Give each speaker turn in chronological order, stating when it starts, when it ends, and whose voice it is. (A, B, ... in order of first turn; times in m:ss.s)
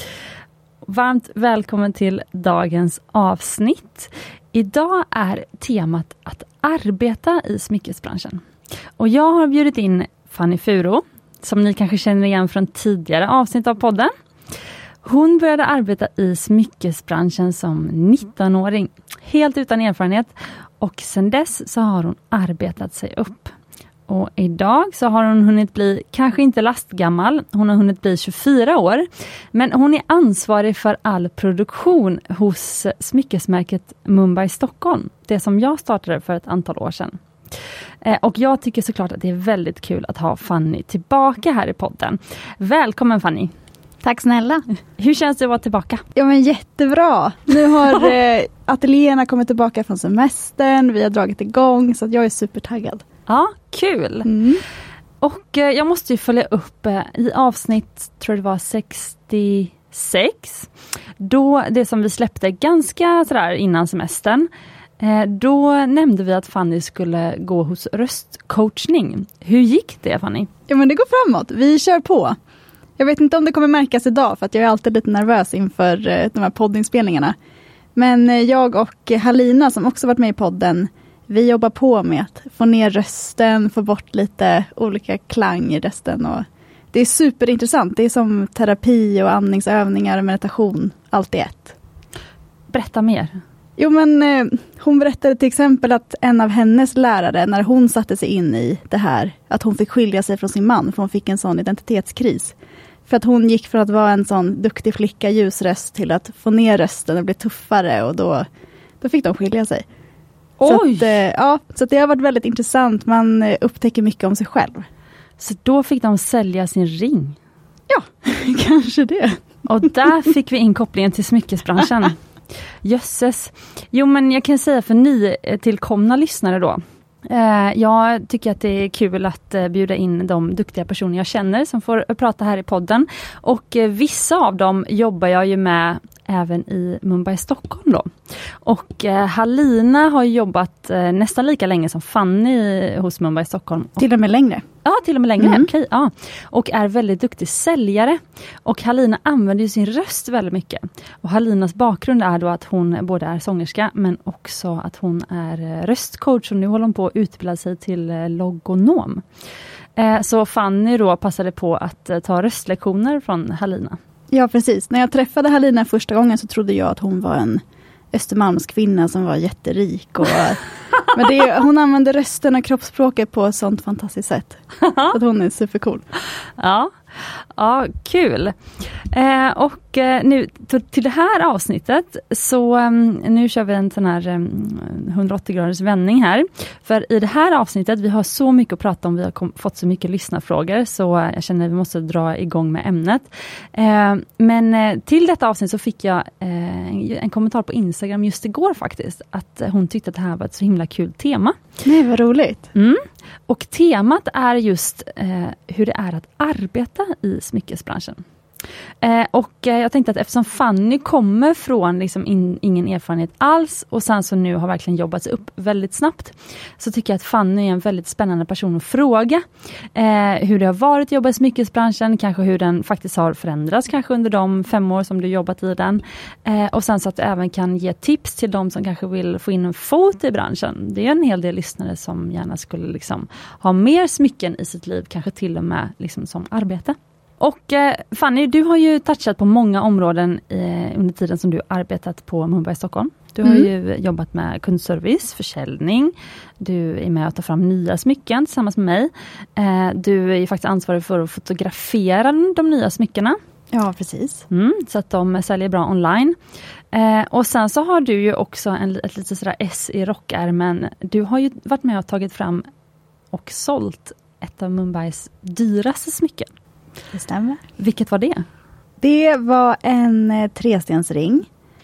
0:00.8-0:08.4 A
0:09.0-0:14.1 A
0:15.0-0:23.5 A
0:24.1-0:37.2 A
0:38.0-0:43.5 A
0:44.0-0:44.6 B
0:45.0-0:46.0 A
0:46.1-0:53.0 B
0:53.3-0:54.3 A
0:54.2-0:54.6 B
0:55.2-1:10.5 A
1:10.7-1:12.4 B
1:13.0-1:17.3 B
1:17.9-1:31.8 B
1:32.7-1:33.4 A
1:33.8-1:42.5 B
1:43.1-1:48.4 B
1:49.0-1:49.8 B
1:50.6-1:51.2 A
1:50.6-1:54.9 B
1:55.4-1:57.4 A
1:57.9-1:59.4 B
1:59.6-2:02.2 A
2:02.8-2:18.1 A
2:18.6-2:24.0 A
2:24.0-2:24.6 B
2:24.8-2:39.2 A
2:25.4-2:25.7 B
2:40.0-2:44.0 A
2:44.3-2:47.6 B
2:48.1-2:56.0 B
2:54.8-2:55.1 A
2:56.6-3:21.6 A
3:21.8-3:22.7 B
3:22.7-3:28.2 A
3:29.0-4:13.4 A
4:03.4-4:03.7 B
4:13.7-4:14.4 B
4:14.5-4:16.4 A
4:16.9-4:22.7 A
4:23.3-4:26.5 A
4:27.1-4:27.6 B
4:27.8-4:28.4 A
4:29.0-4:31.5 B